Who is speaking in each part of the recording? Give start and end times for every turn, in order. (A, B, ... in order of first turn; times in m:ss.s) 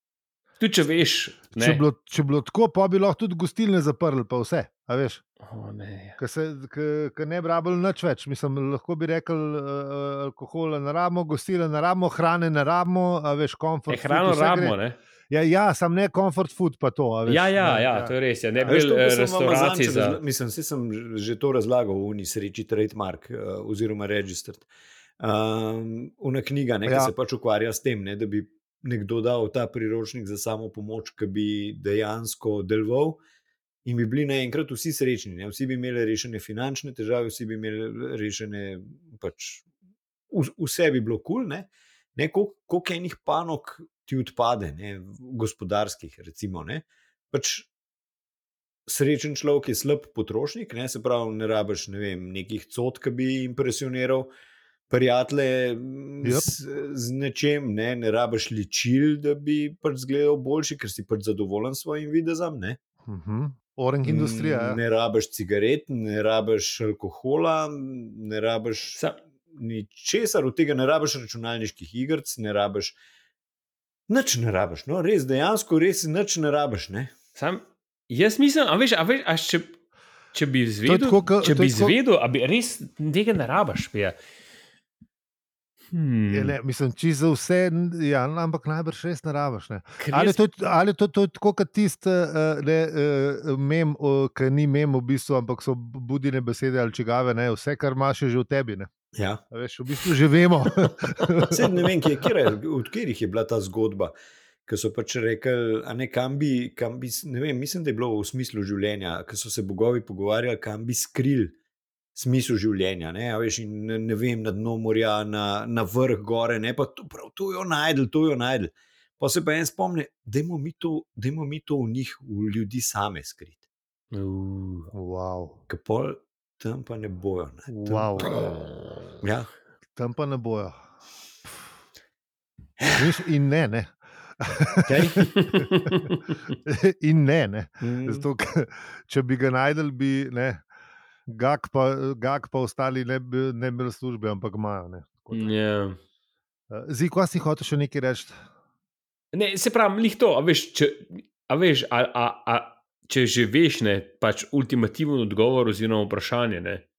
0:00.6-0:01.8 A
0:01.6-0:05.2 B
0:05.4-0:06.2 A
0:06.2-0:14.8 B
0:13.9-0:15.0 A
0:15.3-0:18.1 B
0:17.3-0:20.2 A
0:18.7-0:24.7 C
0:25.2-0:33.2 C
0:26.9-0:27.1 B
0:33.8-0:39.7 C
0:40.3-0:47.7 C
0:48.9-0:54.3 C
0:54.9-1:02.8 C
0:56.2-0:56.5 B
1:03.1-1:04.8 B
1:04.0-1:09.0 C
1:09.5-1:13.0 C
1:14.1-1:17.1 C
1:17.4-1:19.8 A
1:20.3-1:24.2 A
1:20.9-1:22.0 B
1:25.9-1:26.6 A
1:26.3-1:38.9 B
1:30.0-1:30.4 A
1:39.2-1:39.4 C
1:39.5-1:41.9 B
1:41.5-1:44.1 C
1:44.7-1:51.5 C
1:52.2-2:03.6 C
2:04.1-2:04.9 A
2:04.9-2:05.6 B
2:05.7-2:08.4 C
2:07.7-2:08.3 B
2:09.2-2:09.5 C
2:10.0-2:10.8 B
2:12.9-2:16.0 B
2:14.9-2:15.3 C
2:15.4-2:16.2 A
2:16.7-2:20.6 B
2:17.8-2:18.3 C
2:21.3-2:25.6 B
2:25.3-2:26.0 A
2:26.7-2:28.4 B
2:29.3-2:36.8 A